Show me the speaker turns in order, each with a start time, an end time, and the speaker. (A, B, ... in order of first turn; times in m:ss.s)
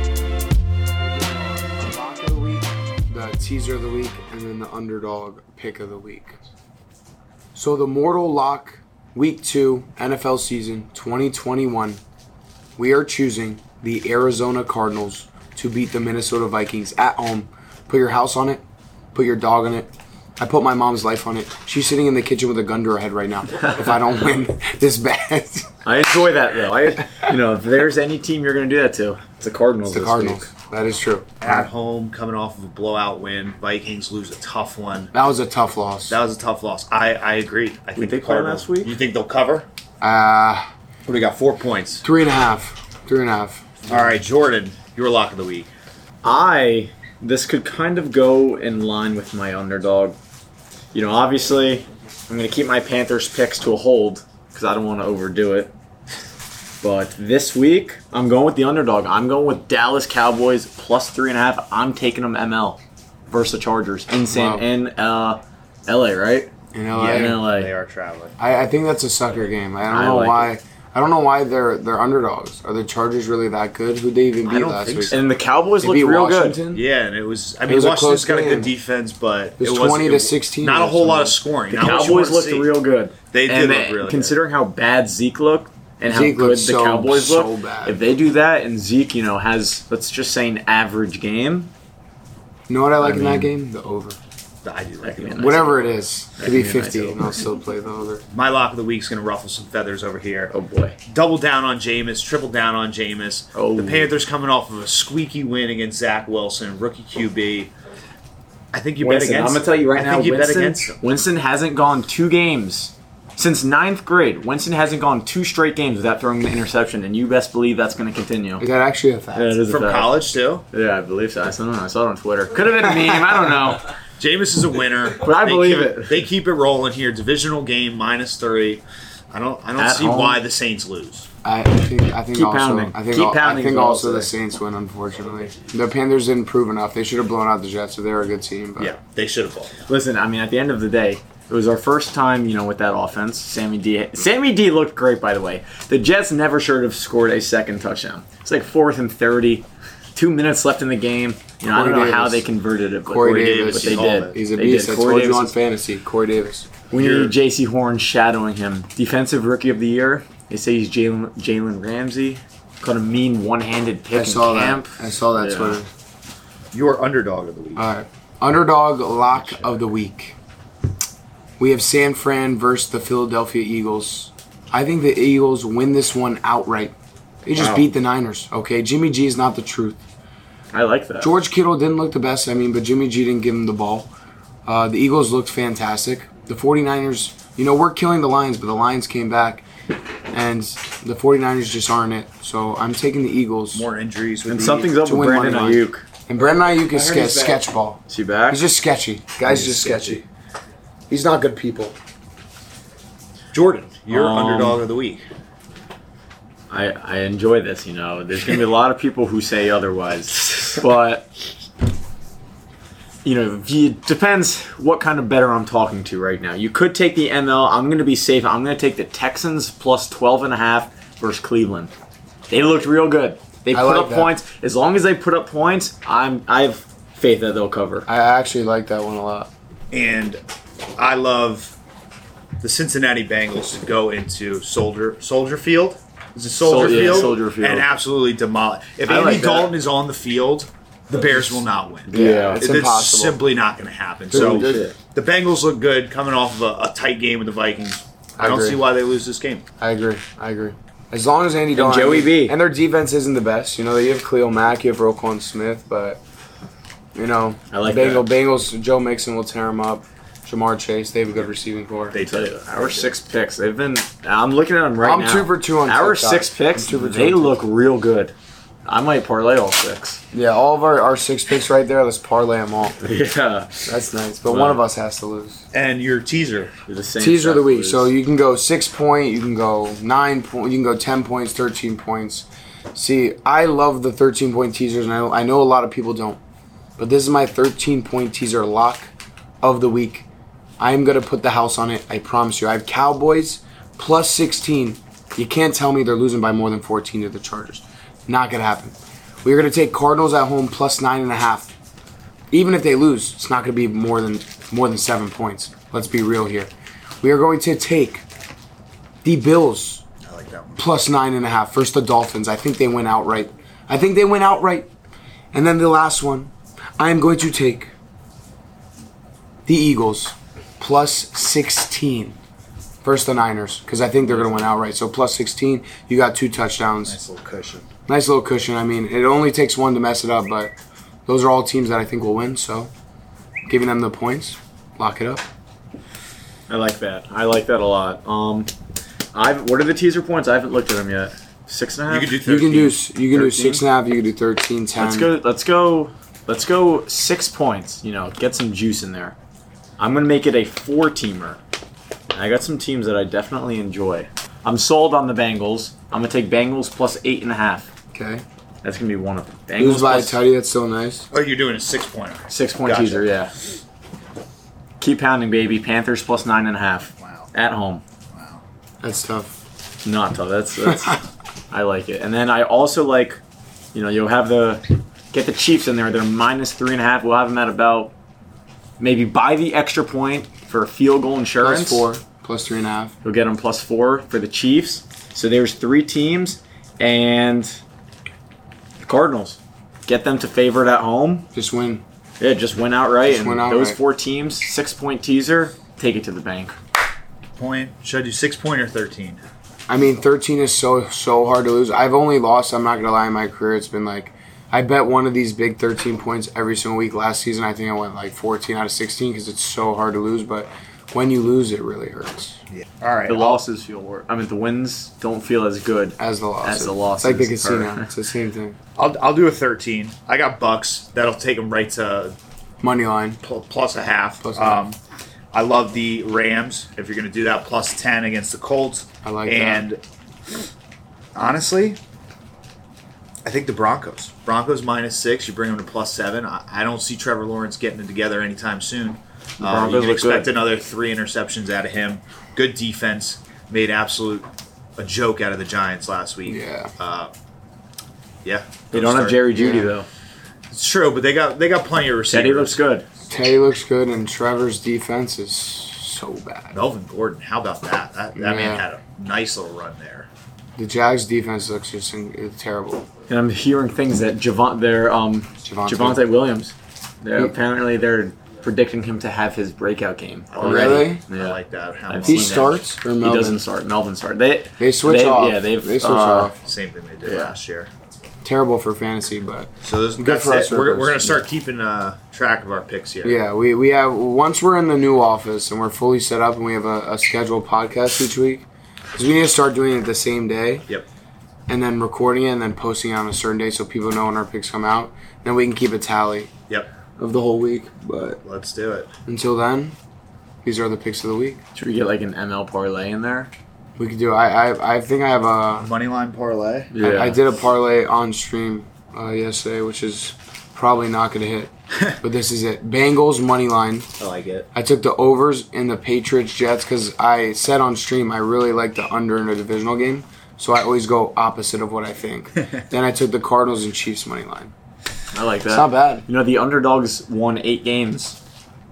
0:01.1-0:06.4 A
0:07.5-0:12.0 A
0:12.8-0:18.6 A
0:19.1-0:25.7 A
0:25.8-0:30.5 B
0:29.8-0:31.7 A
0:31.4-0:35.1 C
0:35.1-0:36.2 A
0:36.1-0:39.6 C
0:38.0-0:38.9 B
0:40.0-0:40.6 A
0:41.0-0:42.0 C
0:42.0-0:43.9 A
0:43.9-0:45.7 C
0:46.2-0:50.2 B
0:50.9-0:55.7 B
0:56.8-1:02.8 B
1:03.3-1:07.7 B
1:04.3-1:04.7 A
1:06.7-1:07.4 A
1:06.9-1:08.3 C
1:08.4-1:15.2 A
1:09.9-1:10.5 B
1:14.4-1:15.2 C
1:15.1-1:16.6 B
1:15.8-1:16.8 A
1:16.7-1:22.7 C
1:17.6-1:18.7 A
1:19.6-1:21.4 A
1:21.7-1:31.7 B
1:23.3-1:24.3 C
1:26.0-1:28.1 A
1:32.7-1:34.2 A
1:33.0-1:33.5 B
1:34.6-1:35.9 C
1:35.0-1:37.4 B
1:35.4-1:38.2 A
1:38.3-1:40.5 C
1:40.5-1:41.0 B
1:41.1-1:47.7 C
1:43.5-1:44.1 B
1:48.7-1:51.0 C
1:49.0-1:58.6 B
1:58.6-1:59.6 A
1:59.3-2:03.9 B
1:59.7-2:00.6 C
2:04.2-2:11.3 C
2:05.2-2:06.2 B
2:09.8-2:10.4 B
2:11.4-2:19.0 A
2:12.3-2:14.3 B
2:18.8-2:19.9 C
2:19.9-2:35.6 B
2:31.7-2:32.5 A
2:33.0-2:36.7 A
2:33.4-2:34.4 C
2:36.9-2:45.8 B
2:36.9-2:37.3 C
2:44.1-2:45.9 A
2:46.7-2:47.8 C
2:47.8-2:50.4 A
2:51.6-3:00.0 A
2:57.6-2:57.8 B
3:00.7-3:01.3 B
3:01.2-3:04.1 A
3:04.6-3:09.6 A
3:10.3-3:13.8 A
3:13.7-3:15.0 C
3:14.4-3:16.0 B
3:15.0-3:20.2 A
3:16.9-3:18.6 B
3:19.4-3:20.2 B
3:21.1-3:22.0 A
3:23.5-3:25.2 C
3:24.1-3:24.8 B
3:26.7-3:31.3 B
3:33.2-3:41.9 B
3:42.5-3:48.0 B
3:43.7-3:44.4 A
3:48.0-3:49.5 A
3:49.9-3:50.4 C
3:51.0-3:51.7 C
3:52.6-4:09.6 C
3:56.6-3:57.9 B
3:59.0-3:59.8 B
4:02.1-4:02.7 B
4:02.1-4:03.4 A
4:04.3-4:04.9 A
4:04.3-4:05.0 B
4:08.4-4:08.8 A
4:09.8-4:16.2 A
4:11.7-4:12.6 B
4:17.1-4:22.2 A
4:17.7-4:18.3 B
4:22.1-4:22.7 C
4:22.2-4:28.3 B
4:25.0-4:27.6 A
4:28.8-4:30.2 B
4:30.3-4:33.0 A
4:33.0-4:33.9 B
4:33.8-4:35.6 A
4:34.5-4:34.8 B
4:35.7-4:36.7 C
4:36.8-4:38.1 B
4:37.2-4:46.4 A
4:47.0-4:49.1 A
4:49.6-4:50.3 A
4:50.8-5:01.7 A
5:02.5-5:06.7 A
5:07.2-5:08.2 A
5:09.2-5:10.0 A
5:10.2-5:10.8 C
5:10.8-5:14.9 A
5:15.5-5:17.9 A
5:19.6-5:22.4 A
5:23.0-5:27.2 A
5:24.3-5:24.7 B
5:27.0-5:27.8 C
5:28.1-5:30.7 A
5:31.2-5:32.9 A
5:33.7-5:35.4 A
5:36.7-5:38.7 B
5:39.3-5:42.4 B
5:42.1-5:43.0 C
5:42.4-5:45.3 A
5:43.3-5:43.8 B
5:45.0-5:49.4 B
5:50.0-5:51.6 B
5:52.3-5:57.9 B
5:58.1-5:58.4 A
5:58.8-6:00.4 B
5:59.8-6:01.3 A
6:01.3-6:03.4 C
6:02.5-6:03.5 B
6:05.0-6:08.0 B
6:07.2-6:07.5 C
6:08.3-6:08.6 C
6:09.0-6:09.6 A
6:10.0-6:13.4 B
6:13.9-6:18.1 B
6:19.0-6:22.1 B
6:21.6-6:23.1 A
6:23.2-6:27.8 B
6:29.0-6:31.5 B
6:31.5-6:32.0 A
6:32.4-6:36.7 B
6:33.2-6:34.0 A
6:37.6-6:39.4 C
6:39.9-6:52.6 A
6:53.0-6:53.6 C
6:53.3-6:58.1 B
6:56.2-6:58.8 A
6:59.0-7:02.3 C
7:02.8-7:03.4 A
7:03.4-7:05.0 C
7:04.4-7:04.8 A
7:05.5-7:10.0 C
7:09.2-7:09.9 A
7:11.3-7:12.0 C
7:13.4-7:27.3 C
7:19.6-7:20.5 B
7:26.4-7:26.9 A
7:28.4-7:29.5 C
7:28.9-7:30.1 B
7:29.5-7:30.0 A
7:30.7-7:32.8 C
7:32.3-7:33.0 B
7:33.3-7:36.8 A
7:36.7-7:40.3 C
7:38.4-7:38.8 A
7:40.8-7:43.1 A
7:43.3-7:56.5 B
7:45.6-7:46.2 A
7:50.5-7:52.8 C
7:50.6-7:51.2 A
7:52.2-7:53.6 A
7:54.8-7:56.5 A
7:56.6-7:57.9 C
7:57.2-7:57.5 B
7:58.4-8:01.4 A
7:59.8-8:03.4 C
8:03.2-8:10.9 A
8:11.7-8:16.5 A
8:17.2-8:18.4 A
8:18.4-8:19.1 C
8:19.3-8:20.0 A
8:20.6-8:21.6 A
8:21.7-8:23.5 B
8:24.0-8:25.9 A
8:25.8-8:26.9 C
8:26.9-8:27.4 B
8:27.0-8:34.1 A
8:34.2-8:34.7 C
8:34.7-8:44.7 A
8:45.3-8:48.4 B
8:45.7-8:46.2 A